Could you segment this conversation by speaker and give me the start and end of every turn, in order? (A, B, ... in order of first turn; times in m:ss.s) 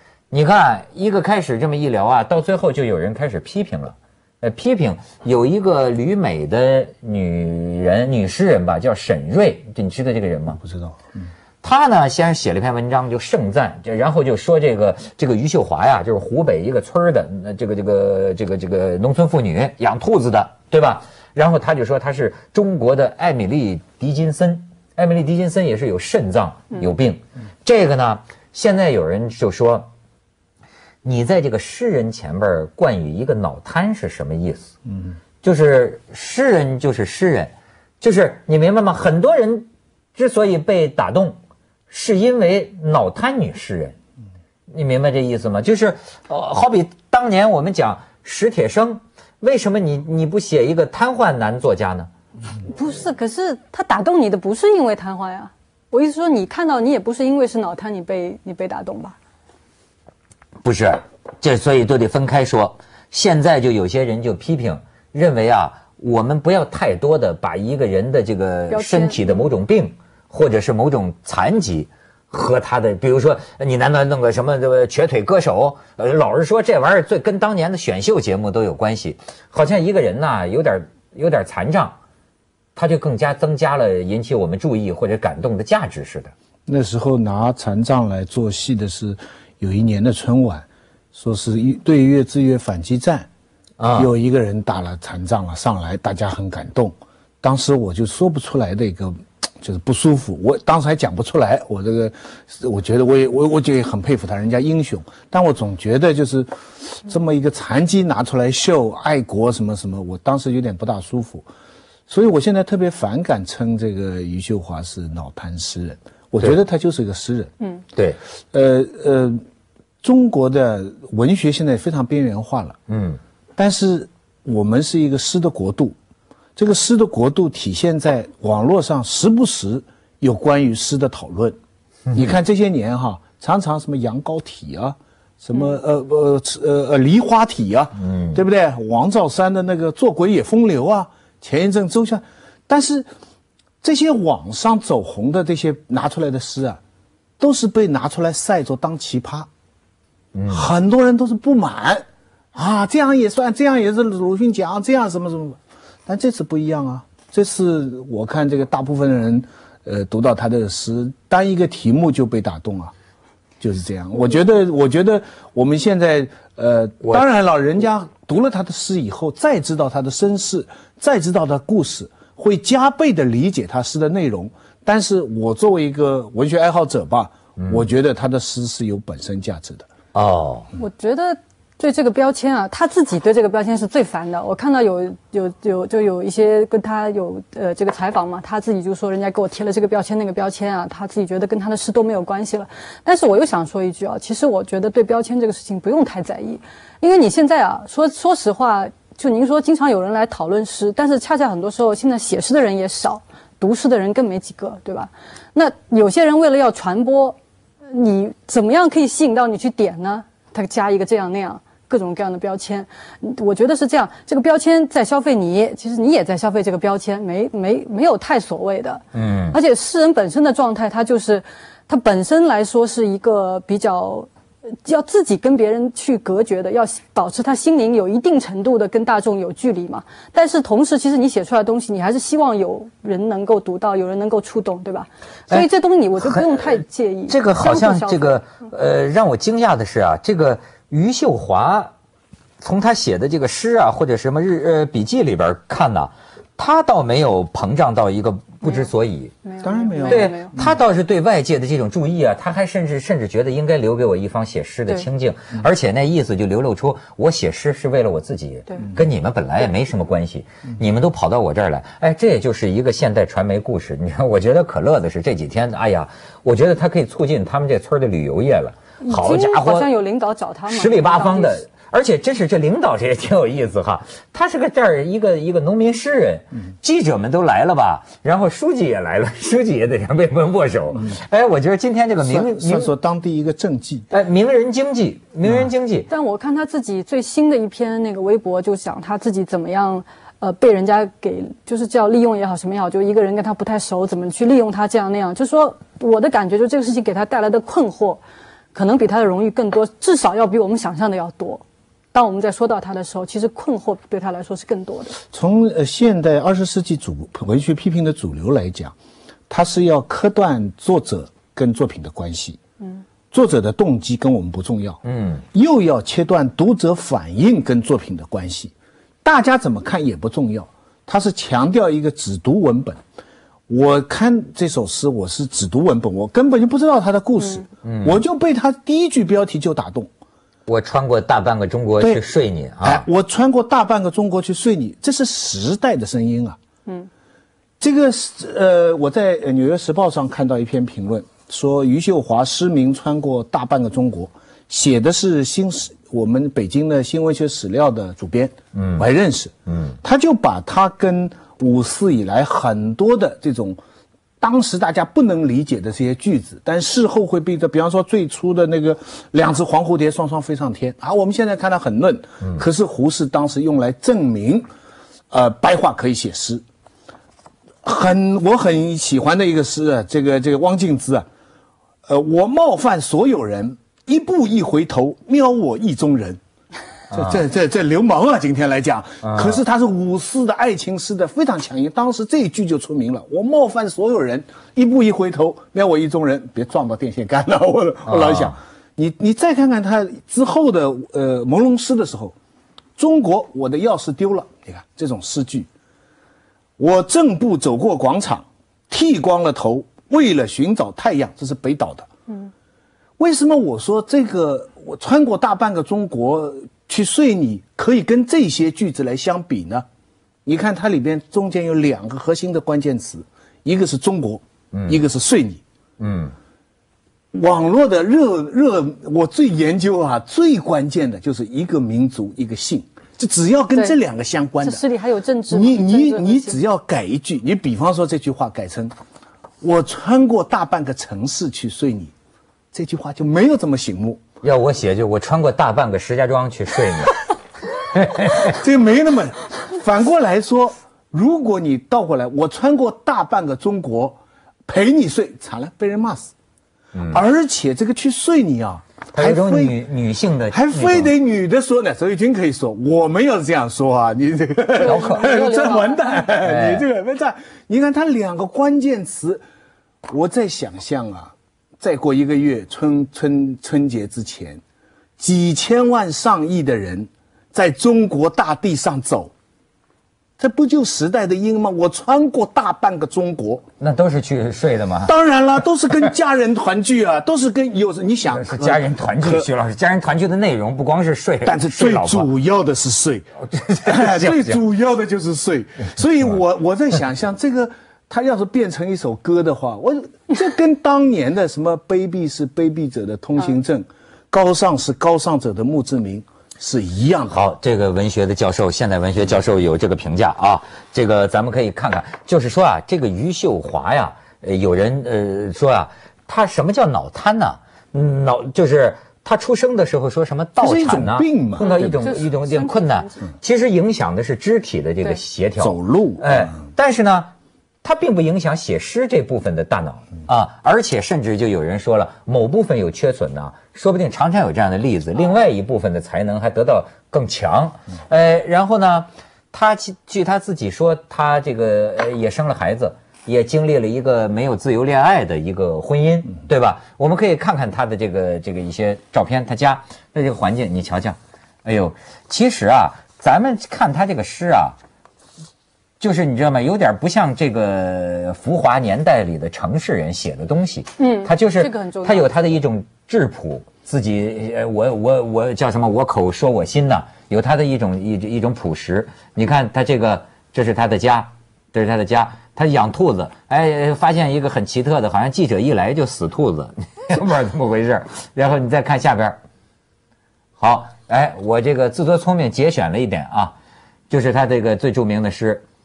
0:00.3-0:10.6 A
0:10.6-0:11.2 B
0:11.6-0:29.9 A
0:31.0-0:34.7 A
0:35.4-0:41.4 A
0:41.9-0:43.9 A
0:44.7-0:52.1 A
0:52.6-0:59.2 C
1:00.6-1:22.0 A
1:08.7-1:09.5 C
1:22.8-1:26.3 A
1:26.7-1:33.3 B
1:33.8-1:34.1 A
1:33.9-1:51.5 B
1:52.1-1:57.5 B
1:58.5-1:59.4 B
2:00.0-2:02.8 B
2:02.9-2:03.2 A
2:03.6-2:06.0 B
2:06.6-2:11.6 B
2:12.1-2:23.1 B
2:18.0-2:18.4 A
2:23.8-2:26.8 B
2:27.4-2:29.5 B
2:30.3-2:30.7 A
2:30.5-2:42.9 B
2:43.6-2:59.9 B
3:00.1-3:00.7 A
3:00.8-3:44.3 C
3:39.1-3:39.6 A
3:44.8-3:58.4 C
3:56.2-4:01.9 A
4:02.6-4:09.4 A
4:08.6-4:08.9 C
4:09.4-4:10.5 C
4:09.6-4:10.7 B
4:10.0-4:29.9 A
4:29.0-4:31.6 C
4:30.7-4:42.9 A
4:42.2-4:44.1 B
4:44.1-4:46.1 A
4:46.1-4:58.2 C
4:58.7-5:05.2 C
5:05.3-5:08.9 B
5:09.5-5:12.6 B
5:13.3-5:15.0 B
5:15.0-5:15.4 A
5:15.5-5:18.7 B
5:19.2-5:23.0 B
5:23.7-5:30.1 B
5:27.8-5:28.2 A
5:30.7-5:33.0 A
5:32.8-5:36.6 B
5:37.8-5:53.8 B
5:48.8-5:49.0 A
5:54.4-6:04.7 B
6:05.3-6:06.6 B
6:07.8-6:11.2 B
6:12.1-6:16.4 B
6:17.1-6:32.3 B
6:19.2-6:19.6 A
6:28.1-6:28.5 A
6:33.0-6:35.7 B
6:36.8-6:42.1 B
6:43.2-6:49.8 B
6:50.4-6:55.6 B
6:54.7-6:55.0 A
6:56.0-6:56.3 A
6:57.3-7:04.8 B
7:04.6-7:06.6 C
7:05.5-7:08.9 B
7:09.6-7:12.1 B
7:12.7-7:14.2 B
7:14.4-7:17.3 A
7:17.9-7:18.6 A
7:18.4-7:26.3 B
7:26.9-7:27.2 A
7:27.1-7:29.8 B
7:29.1-7:31.1 A
7:30.5-7:39.4 B
7:34.8-7:35.5 A
7:34.8-7:36.3 C
7:36.4-7:36.8 A
7:40.1-7:44.6 B
7:45.2-7:49.3 B
7:50.4-7:53.6 B
7:53.8-7:55.1 A
7:55.0-7:59.5 B
7:58.3-8:02.3 A
8:01.4-8:03.2 B
8:03.5-8:04.6 A
8:03.8-8:17.4 B
8:17.3-8:37.3 A
8:30.6-8:32.0 B
8:31.7-8:33.3 C
8:35.6-8:36.5 B
8:37.8-9:04.8 A
9:06.0-9:29.4 A
9:11.0-9:12.3 C
9:30.6-9:33.5 A
9:34.1-9:35.6 A